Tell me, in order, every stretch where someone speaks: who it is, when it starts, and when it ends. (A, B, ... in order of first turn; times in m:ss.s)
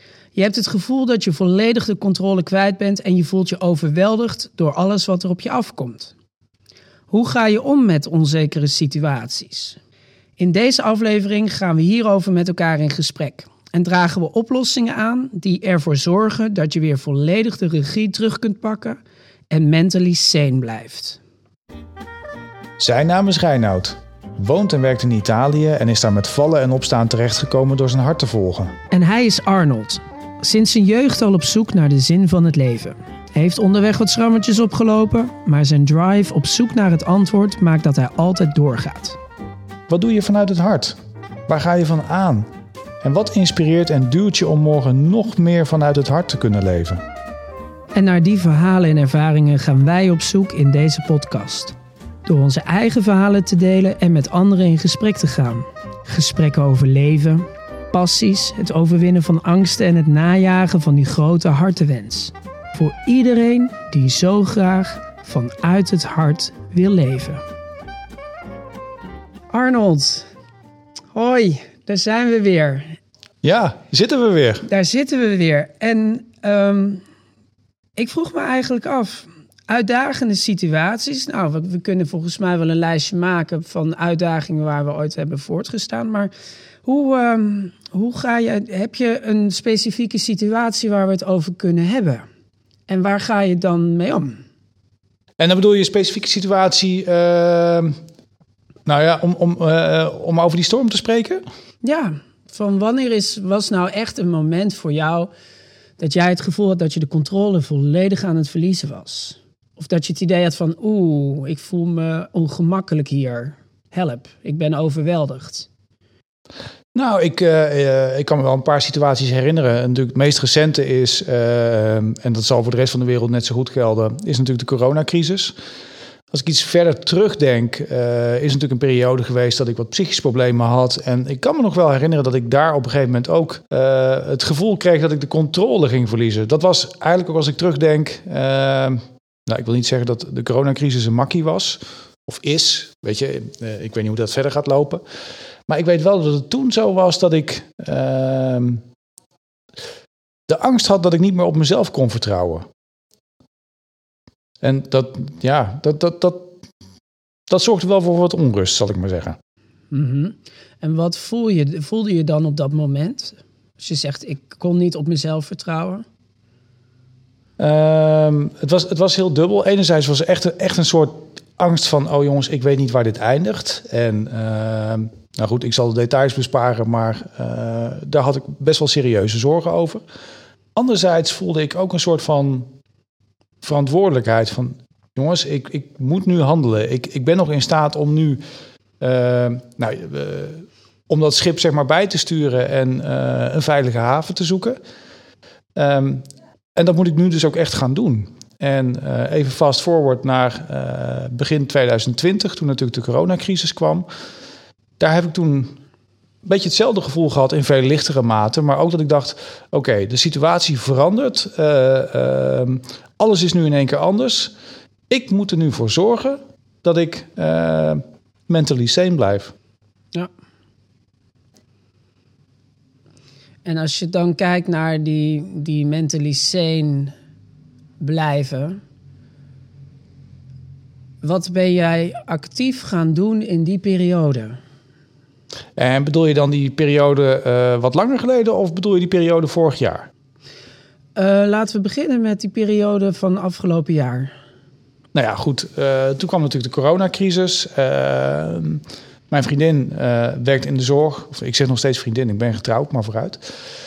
0:00.3-0:06.1 A
0:07.1-0:09.8 A
0:10.4-0:21.2 A
0:22.8-0:28.7 B
0:28.9-0:39.2 A
0:39.9-0:41.0 B
0:41.5-0:42.5 B
0:43.0-0:47.0 B
0:47.9-1:07.4 A
1:09.5-1:10.3 A
1:11.1-1:13.0 A
1:13.4-1:14.6 B
1:14.6-1:17.0 A
1:18.0-1:26.3 A
1:26.8-1:32.2 A
1:32.9-1:34.4 A
1:35.4-1:38.0 B
1:38.8-1:41.4 B
1:41.8-1:45.3 A
1:46.0-1:55.7 A
1:56.9-2:05.5 B
2:06.3-2:25.0 B
2:25.7-2:28.8 B
2:30.5-2:32.7 B
2:34.6-2:36.5 B
2:37.5-2:39.4 B
2:39.9-2:46.0 A
2:47.6-3:00.0 B
3:00.7-3:02.7 B
3:03.6-3:08.4 B
3:09.0-3:14.8 B
3:15.8-3:24.0 B
3:25.0-3:25.8 B
3:26.4-3:34.5 B
3:35.1-3:39.5 B
3:43.6-3:47.1 A
3:48.0-3:48.8 A
3:51.2-3:54.6 A
3:55.8-4:00.1 B
4:01.2-4:04.3 A
4:05.1-4:13.5 B